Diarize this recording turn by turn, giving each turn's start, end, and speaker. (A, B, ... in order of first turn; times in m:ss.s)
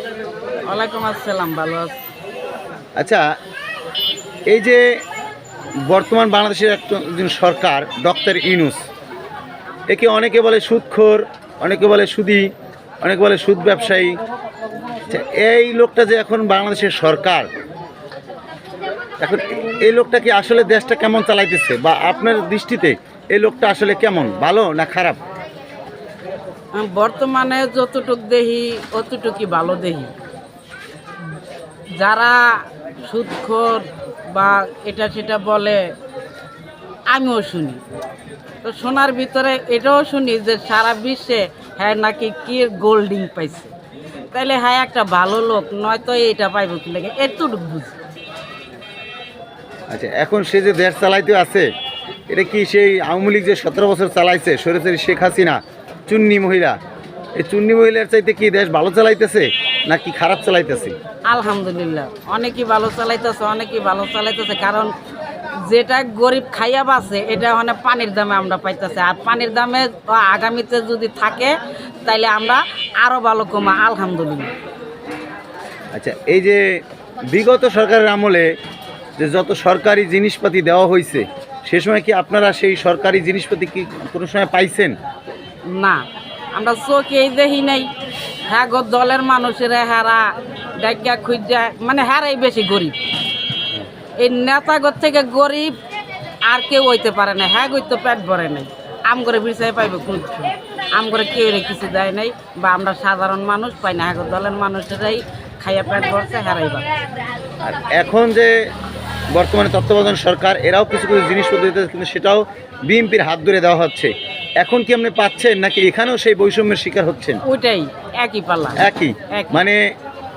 0:00.7-0:02.0 A
0:04.5-0:04.8 B
0:05.9-0:08.8 B
0:09.9-0:12.4 B
0:13.0-0:14.1 B
0:15.1-0:17.5 B
0:19.2-0:25.2 B
0:26.7-0:30.1 A
0:32.0-0:35.8 A
0:37.1-0:37.8 A
0:38.6-0:43.7 A
0:44.3-0:48.0 A
0:49.9-0:51.7 B
0:52.3-0:56.8 B
0:57.4-1:00.9 B
1:01.3-1:04.9 A
1:05.6-1:11.5 A
1:12.0-1:14.5 A
1:15.9-1:16.6 B
1:17.3-1:18.5 B
1:19.2-1:24.9 B
1:25.7-1:26.0 A
1:26.5-1:27.9 A
1:28.5-1:33.0 A
1:34.2-1:35.7 A
1:36.5-1:46.9 A
1:47.6-1:48.5 B
1:49.3-1:57.4 B
1:57.4-1:59.6 A
1:58.8-1:59.8 B